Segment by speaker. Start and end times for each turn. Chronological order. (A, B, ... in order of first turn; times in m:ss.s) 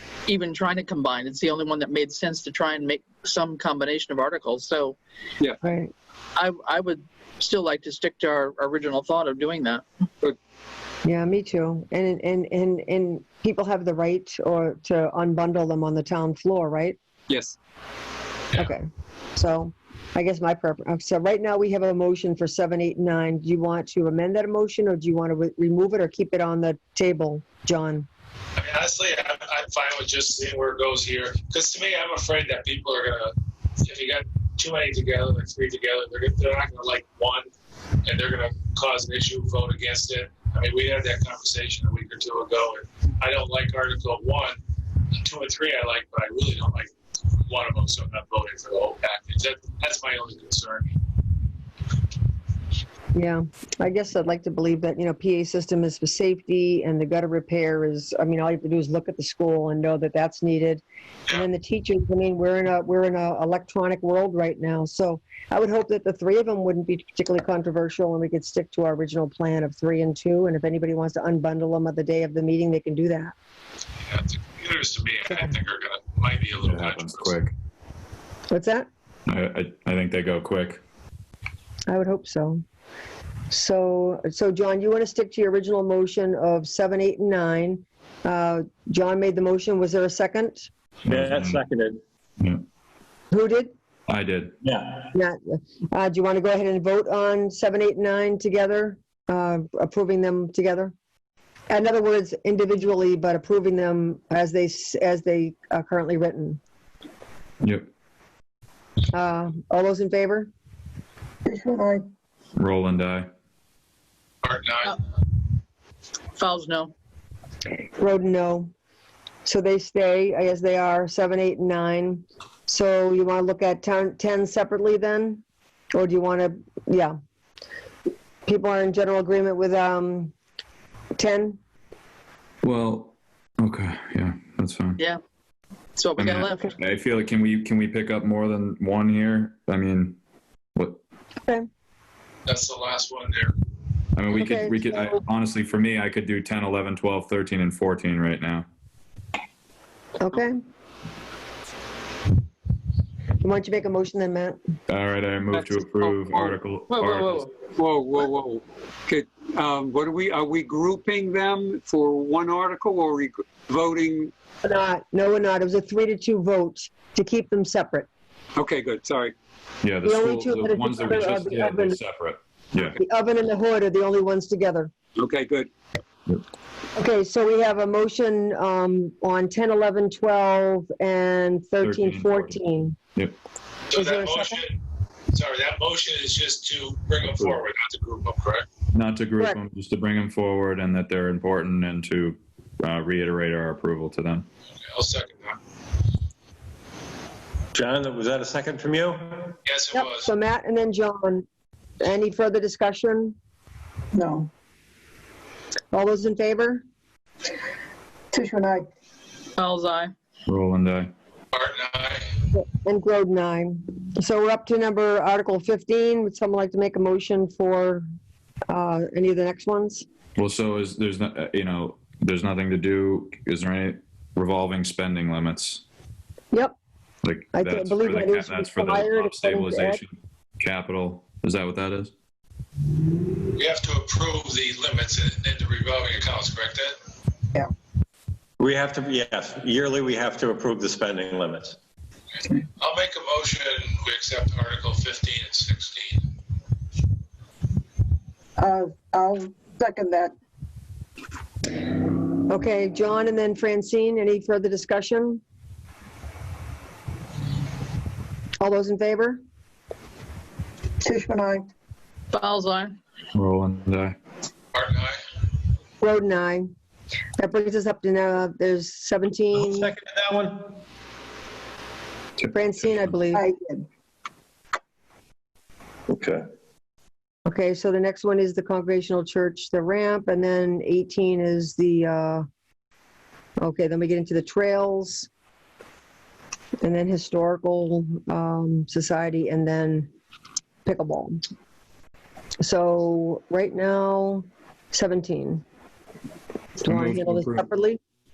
0:00.3-0:05.0 A
0:05.6-0:05.9 B
0:06.4-0:09.8 A
0:11.0-0:17.0 B
0:17.3-0:17.6 C
0:18.6-0:28.1 B
0:28.6-0:37.5 D
0:38.0-0:44.6 D
0:45.2-0:46.9 D
0:47.5-0:50.9 D
0:53.1-1:13.3 B
1:14.0-1:17.3 D
1:16.6-1:17.5 E
1:18.5-1:18.9 B
1:19.3-1:20.8 E
1:21.9-1:22.6 B
1:23.5-1:30.7 B
1:31.1-1:31.6 E
1:31.1-1:32.0 F
1:33.3-1:33.7 B
1:34.1-1:34.6 E
1:34.6-1:35.1 F
1:35.1-1:40.9 B
1:41.7-1:46.6 B
1:47.6-1:47.9 E
1:49.1-1:50.5 B
1:51.5-1:52.1 G
1:52.6-1:53.3 E
1:54.4-1:55.0 D
1:56.4-1:56.9 A
1:58.0-1:58.7 B
1:59.4-2:05.4 B
2:06.0-2:07.2 B
2:08.5-2:10.3 B
2:11.2-2:11.6 B
2:12.6-2:15.0 E
2:16.0-2:16.7 A
2:16.2-2:20.2 E
2:20.8-2:21.0 E
2:22.5-2:23.5 D
2:24.2-2:28.7 E
2:24.3-2:25.2 B
2:30.2-2:30.6 B
2:33.4-2:34.6 B
2:34.9-2:37.5 E
2:35.5-2:36.3 C
2:36.9-2:37.5 A
2:37.8-2:44.3 C
2:44.6-2:48.1 B
2:48.6-2:49.4 C
2:49.8-2:53.0 E
2:50.0-2:52.0 B
2:52.8-2:54.9 B
2:55.2-2:55.7 C
2:57.0-3:03.0 B
3:01.8-3:02.6 E
3:03.9-3:04.8 D
3:04.0-3:04.6 B
3:05.3-3:08.7 D
3:08.9-3:14.5 E
3:14.8-3:15.6 D
3:17.7-3:19.6 F
3:19.6-3:20.3 D
3:19.9-3:21.5 B
3:22.0-3:23.4 B
3:24.1-3:24.5 G
3:25.9-3:26.8 B
3:28.3-3:28.9 G
3:29.6-3:30.1 A
3:30.5-3:31.1 E
3:31.5-3:32.3 D
3:32.5-3:38.0 B
3:38.7-3:40.0 B
3:40.4-3:45.8 E
3:47.2-3:52.1 E
3:47.5-3:50.0 B
3:53.6-3:56.9 D
3:58.6-4:01.8 F
4:02.8-4:06.2 D
4:08.6-4:10.3 G
4:12.5-4:15.4 B
4:18.6-4:19.4 B
4:21.0-4:21.7 G
4:22.3-4:23.0 A
4:23.4-4:24.2 E
4:24.7-4:25.2 D
4:26.0-4:26.7 B
4:27.4-4:29.9 B
4:29.5-4:30.7 F
4:32.5-4:33.4 B
4:33.3-4:33.9 G
4:36.1-4:36.4 F
4:37.5-4:42.4 B
4:43.6-4:45.3 B
4:46.8-4:50.1 B
4:50.8-4:51.4 B
4:52.6-4:55.6 B
4:56.8-4:58.0 B
4:56.8-4:57.6 E